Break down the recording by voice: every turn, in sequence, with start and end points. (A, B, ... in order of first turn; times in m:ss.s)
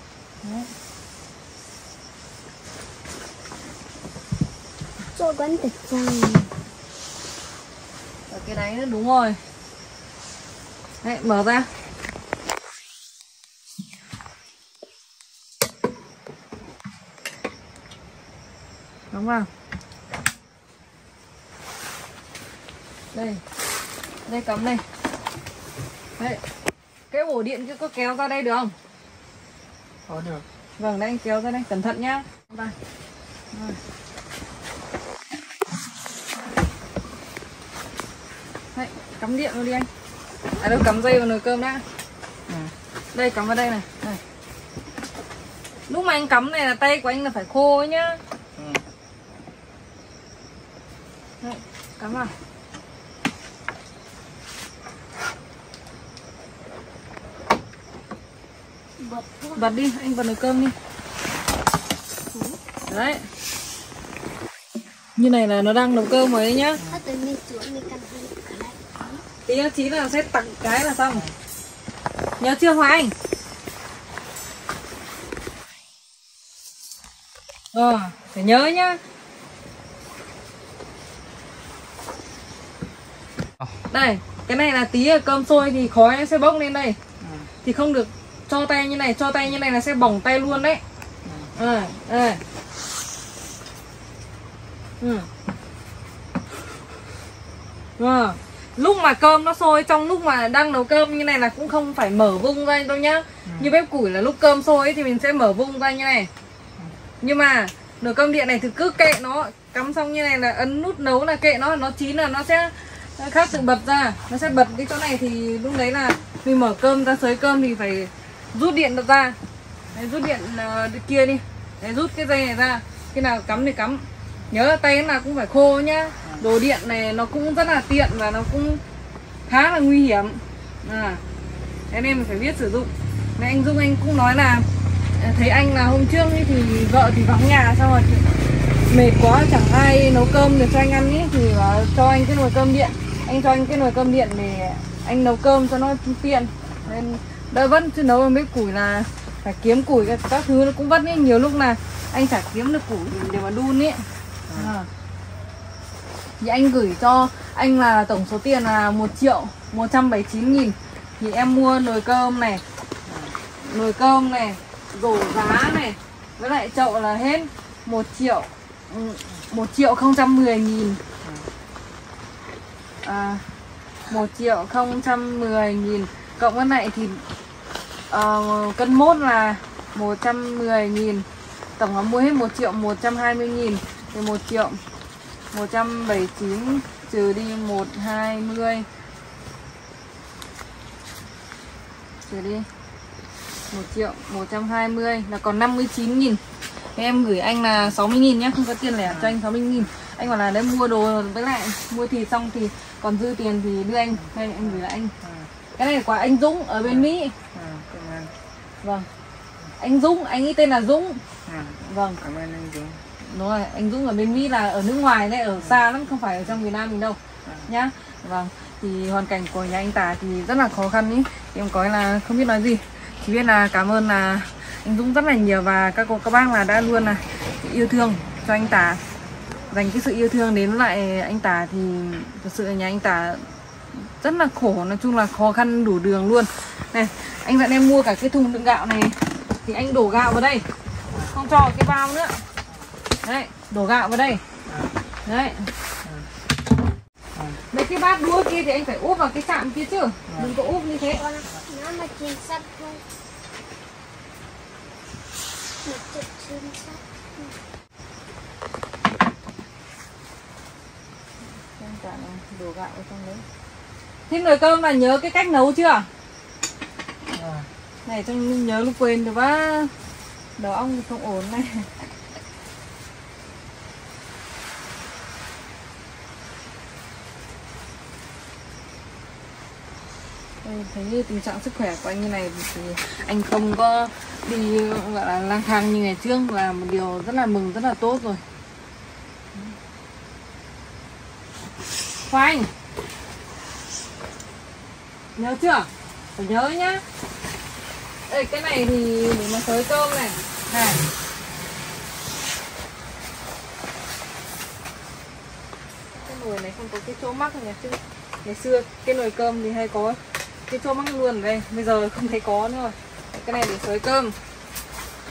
0:00.4-0:00.7 A
0:05.1-0:06.5 B
0:08.3-0:09.4 A
0:11.0-0:11.7 A
0:19.1-0:19.5 A
0:23.1-0:23.4 A
0:24.3-0:24.8 A
0:27.1-0:28.8 A
0:30.1-0:30.4 C
0:30.8-0:32.8 A
0:33.5-0:33.8 A
0:38.7-0:39.9 A
0:40.6-0:41.8 A
0:42.5-0:42.7 C
0:43.1-0:44.2 A
0:45.9-0:48.2 A
0:48.6-0:48.8 C
0:51.4-0:52.3 A
0:59.0-0:59.8 B
0:59.6-1:00.8 A
1:02.3-1:02.6 B
1:02.9-1:03.3 A
1:05.2-1:06.8 A
1:06.8-1:09.2 B
1:09.5-1:11.3 A
1:12.4-1:13.1 A
1:17.7-1:19.0 A
1:23.9-1:27.0 A
1:27.2-1:27.5 C
1:27.6-1:30.8 A
1:31.2-1:31.5 C
1:31.6-1:32.4 A
1:35.0-1:35.3 A
1:38.0-1:46.3 A
1:43.4-1:43.7 C
1:47.2-1:59.4 A
1:59.9-2:08.8 A
2:09.5-2:11.2 A
2:11.9-2:18.3 A
2:18.9-2:34.9 A
2:36.4-2:42.6 A
2:43.1-2:43.4 C
2:43.6-2:51.0 A
2:51.2-2:51.5 C
2:53.0-2:53.5 A
2:54.1-2:57.2 A
2:58.1-3:04.8 A
3:05.5-3:08.9 A
3:12.3-3:12.7 A
3:13.7-3:16.4 A
3:16.9-3:25.1 A
3:19.1-3:19.3 C
3:24.2-3:25.5 C
3:25.8-3:27.3 A
3:26.8-3:28.3 C
3:28.8-3:29.1 A
3:29.8-3:31.2 A
3:31.5-3:33.0 C
3:31.8-3:32.2 A
3:33.2-3:49.0 A
3:49.7-4:00.7 A
4:01.3-4:02.4 A
4:03.2-4:04.4 A
4:04.7-4:04.9 C
4:05.3-4:05.7 A
4:07.7-4:11.2 A
4:10.3-4:10.6 C
4:11.2-4:13.0 B
4:15.8-4:17.6 B
4:21.6-4:23.4 A
4:24.3-4:26.1 A
4:27.3-4:27.7 C
4:28.1-4:29.9 A
4:30.6-4:31.9 A
4:40.6-4:48.4 A
4:52.3-4:52.7 A
4:55.4-4:57.0 A
4:58.3-5:01.0 A
5:06.1-5:14.4 A